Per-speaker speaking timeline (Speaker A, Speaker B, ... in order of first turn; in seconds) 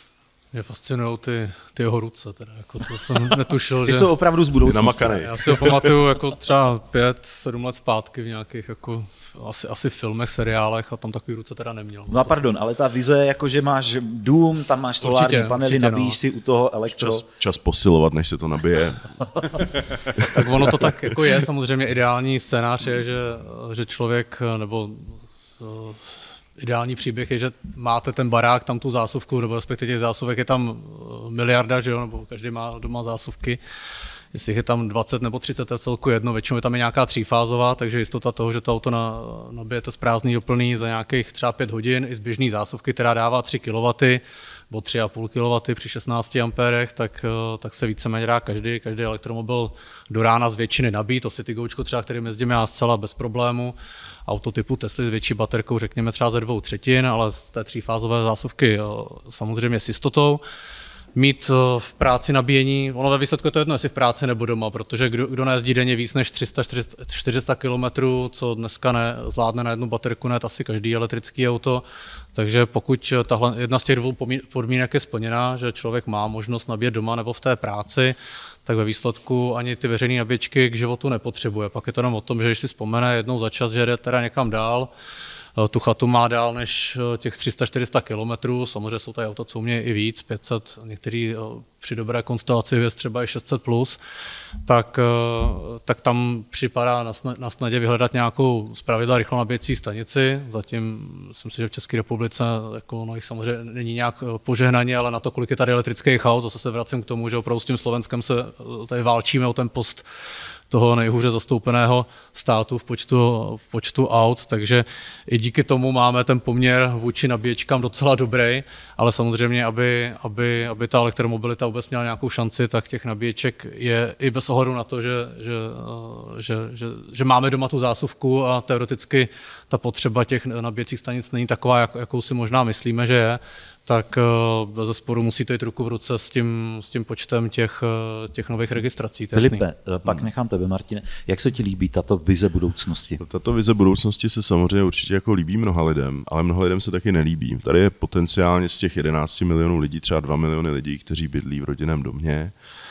Speaker A: 0.5-4.1, 5.2-12.4, 15.0-16.2, 20.2-33.6, 34.3-53.7, 54.3-60.4, 61.1-84.9, 85.6-94.0, 94.6-110.0, 110.7-139.6
Speaker B: 3.8-5.5, 12.1-17.2, 139.3-143.2
Speaker C: 4.6-5.8, 16.9-19.6, 20.2-21.1, 143.2-152.5